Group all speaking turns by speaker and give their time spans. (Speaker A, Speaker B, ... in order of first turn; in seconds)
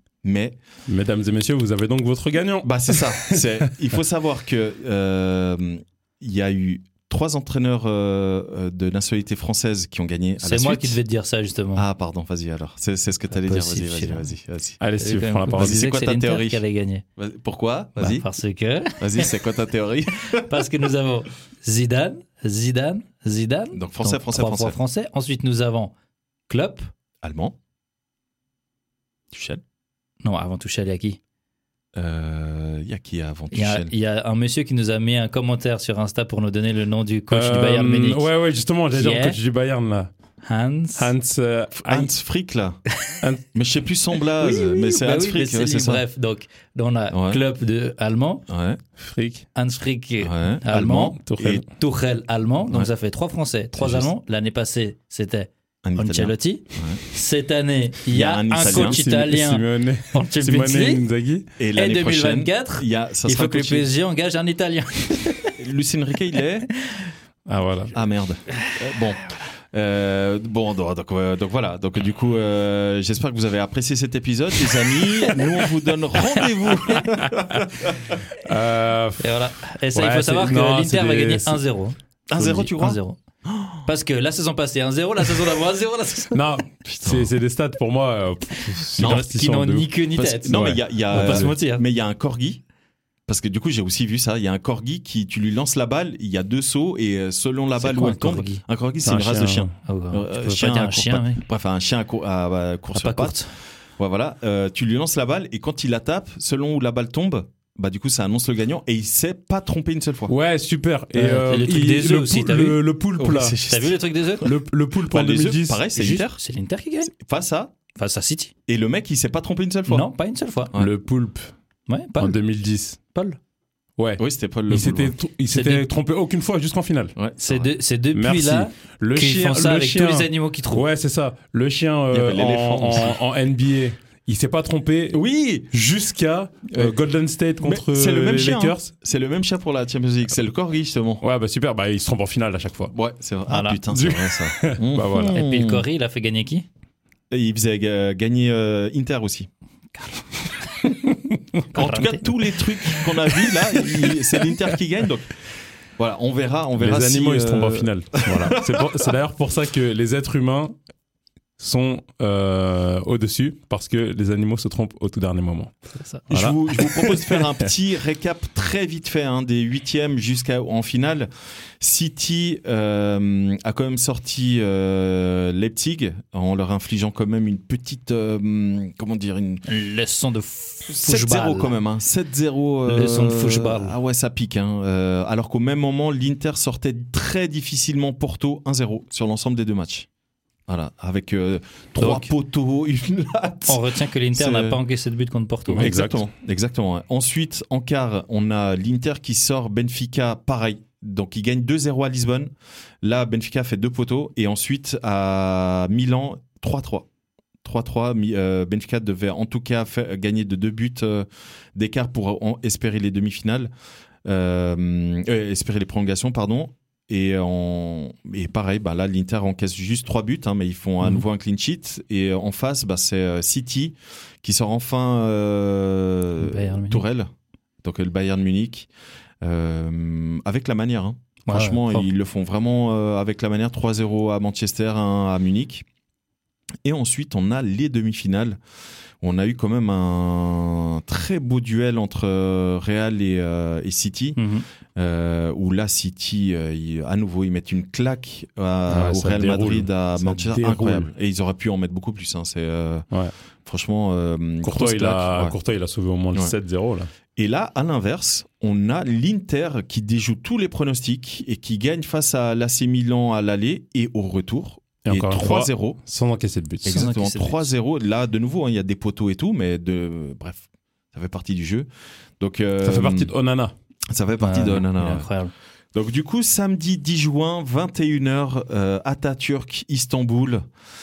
Speaker A: 0.2-0.6, 2.6-11.0, 11.8-14.8, 15.5-16.6, 17.2-18.2, 19.0-20.6, 23.7-24.8, 27.2-27.6, 29.3-29.6, 31.9-33.9, 41.8-42.8, 43.5-46.0, 47.1-47.4, 48.5-48.8, 50.2-51.6, 55.8-57.0, 58.1-59.0, 61.6-63.9, 65.6-66.7, 67.9-78.1, 82.3-83.8, 86.8-87.3, 89.0-89.2, 90.2-92.6, 93.3-103.4, 104.0-110.3, 113.2-114.0, 115.1-116.4, 117.0-117.7, 118.7-120.0, 124.2-125.1, 127.2-127.7, 132.1-133.2, 135.1-135.7, 136.7-136.9, 137.6-141.2, 142.9-145.8, 147.3-149.5, 151.7-155.3, 156.0-158.9, 166.3-171.3, 171.8-179.6, 180.9-190.1, 190.7-194.8, 195.8-202.5, 203.0-207.1, 207.6-213.7, 214.2-227.3, 227.8-228.9, 229.4-235.8, 236.8-238.6, 239.2-244.4, 244.9-253.1, 253.6-255.6, 257.4-266.0, 266.8-271.9, 272.4-273.3, 274.1-275.3, 275.9-280.6
Speaker B: 0.9-3.7, 14.8-15.8, 37.3-40.1, 41.0-42.1, 49.0-49.5, 51.2-51.6, 58.6-61.5, 67.5-68.0, 78.3-79.4, 79.9-81.6, 86.3-89.9, 90.5-91.5, 99.0-99.7, 110.3-113.6, 114.4-115.8, 120.8-121.5, 122.2-123.0, 124.0-127.1, 128.1-135.2, 135.7-138.9, 141.2-142.9, 143.9-145.4, 153.5-154.4, 156.8-160.8, 161.6-165.7, 166.3-167.5, 195.7-196.2, 248.9-251.1, 254.6-257.1, 265.1-267.0, 272.8-273.7
Speaker C: 10.4-11.8, 13.3-14.3, 15.0-17.0, 17.9-19.4, 20.2-25.9, 26.5-26.9, 30.2-31.2, 33.5-38.2, 38.9-39.4, 40.4-41.1, 44.3-48.5, 49.5-61.0, 61.8-65.5, 79.2-83.2, 83.8-86.4, 88.8-91.8, 97.8-98.6, 99.8-101.4, 102.9-103.5, 111.1-112.8, 113.6-114.5, 115.9-117.1, 117.9-118.5, 119.9-120.7, 121.9-122.4, 123.1-123.4, 125.5-125.9, 127.4-130.8, 143.5-143.8, 145.3-146.7, 149.9-150.9, 151.7-152.3, 179.6-181.7, 182.9-183.9, 192.0-192.3, 193.7-196.0, 226.4-227.0, 231.4-232.1, 244.4-244.6, 266.9-267.7, 274.4-275.5